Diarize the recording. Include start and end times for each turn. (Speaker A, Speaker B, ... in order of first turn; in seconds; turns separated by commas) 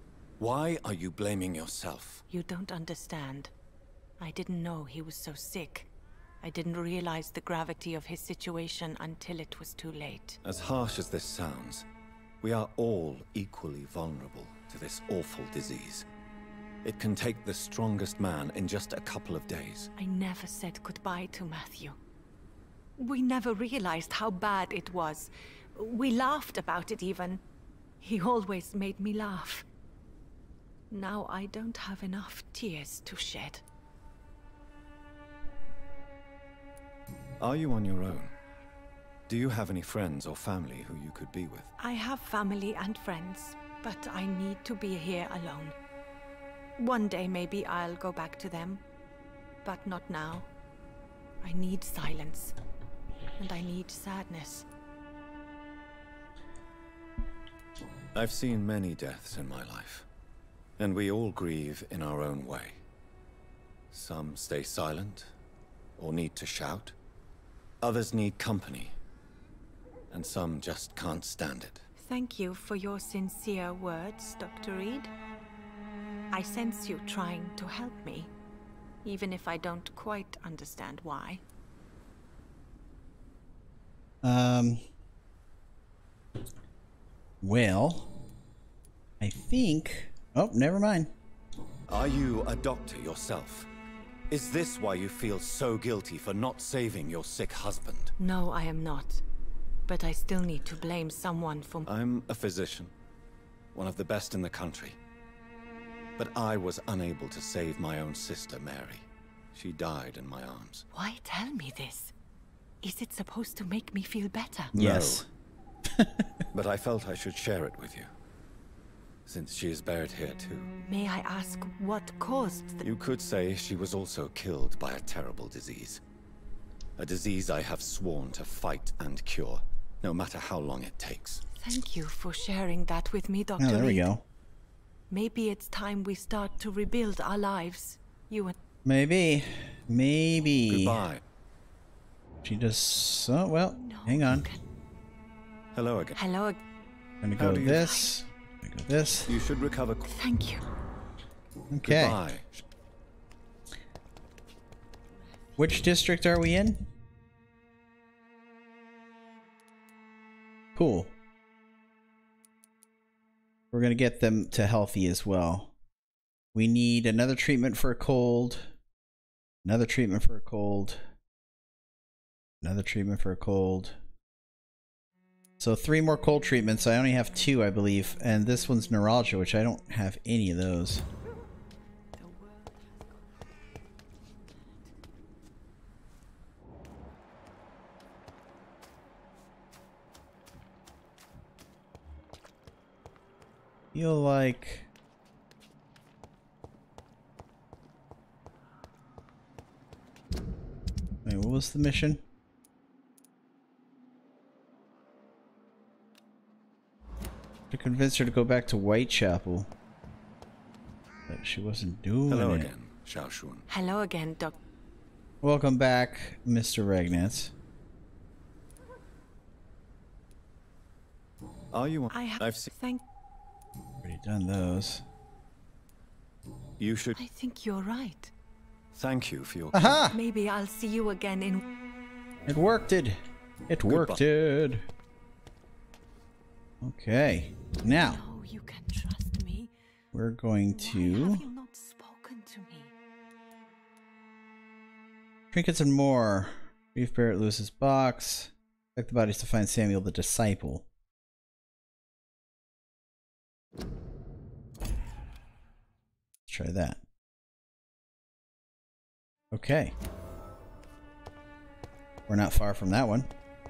Speaker A: 0.4-2.2, Speaker B: 2.3-3.5, Speaker B: 4.2-5.9, Speaker B: 6.4-10.4, Speaker A: 10.4-11.8, Speaker A: 12.4-16.1, Speaker A: 16.8-19.9, Speaker B: 20.0-22.0, Speaker B: 23.0-27.4, Speaker B: 28.0-29.6, Speaker B: 30.9-33.6, Speaker A: 37.4-38.3, Speaker A: 39.3-41.7, Speaker B: 41.8-45.8, Speaker B: 46.8-48.8, Speaker B: 49.6-50.5, Speaker B: 51.4-52.5, Speaker B: 53.4-54.6, Speaker A: 58.1-60.1, Speaker A: 60.8-62.8, Speaker A: 63.9-65.3, Speaker A: 66.0-66.9, Speaker A: 67.8-68.9, Speaker A: 70.1-71.8, Speaker B: 72.0-75.1, Speaker B: 76.3-78.3, Speaker B: 79.0-81.4, Speaker C: 84.2-84.8, Speaker C: 87.4-88.1, Speaker C: 89.2-91.1, Speaker A: 91.9-93.7, Speaker A: 94.3-98.1, Speaker B: 98.2-99.2, Speaker B: 99.9-101.9, Speaker A: 101.8-102.9, Speaker A: 103.7-105.0, Speaker A: 106.2-110.9, Speaker B: 110.9-112.1, Speaker B: 112.8-114.7, Speaker A: 114.7-115.3, Speaker C: 114.8-115.3, Speaker C: 115.9-116.2, Speaker A: 116.5-118.1, Speaker A: 119.2-120.7, Speaker B: 120.8-122.8, Speaker A: 122.8-126.0, Speaker A: 127.0-131.4, Speaker B: 131.6-134.1, Speaker C: 133.6-134.2, Speaker B: 135.1-138.6, Speaker C: 138.8-141.0, Speaker A: 140.7-141.2, Speaker C: 142.4-144.4, Speaker B: 143.7-144.6, Speaker A: 145.7-146.2, Speaker B: 146.2-146.6, Speaker C: 147.2-149.3, Speaker A: 147.4-147.9, Speaker B: 147.8-148.1, Speaker A: 149.3-150.1, Speaker B: 150.1-150.6, Speaker C: 151.7-152.2, Speaker A: 151.8-152.6, Speaker C: 155.6-156.9, Speaker C: 160.8-161.1, Speaker C: 163.7-165.7, Speaker C: 166.5-168.7, Speaker C: 169.6-171.0, Speaker C: 172.6-174.0, Speaker C: 175.6-181.0, Speaker B: 182.2-182.9, Speaker C: 193.9-194.9, Speaker C: 201.2-202.2, Speaker C: 207.7-209.7, Speaker C: 211.3-212.7, Speaker A: 212.3-213.7, Speaker B: 213.7-214.6, Speaker C: 215.4-217.5, Speaker A: 221.7-222.7, Speaker B: 222.1-223.0, Speaker C: 224.0-225.0, Speaker A: 226.8-227.2, Speaker B: 227.2-228.3, Speaker A: 228.9-230.0, Speaker C: 229.7-230.2, Speaker B: 230.1-231.6, Speaker C: 232.5-234.8, Speaker A: 233.8-234.2, Speaker C: 236.8-238.2, Speaker B: 237.8-239.7, Speaker C: 240.1-241.4, Speaker B: 240.8-242.9, Speaker C: 245.5-250.8, Speaker C: 256.5-257.0, Speaker C: 259.5-259.9, Speaker C: 262.3-263.3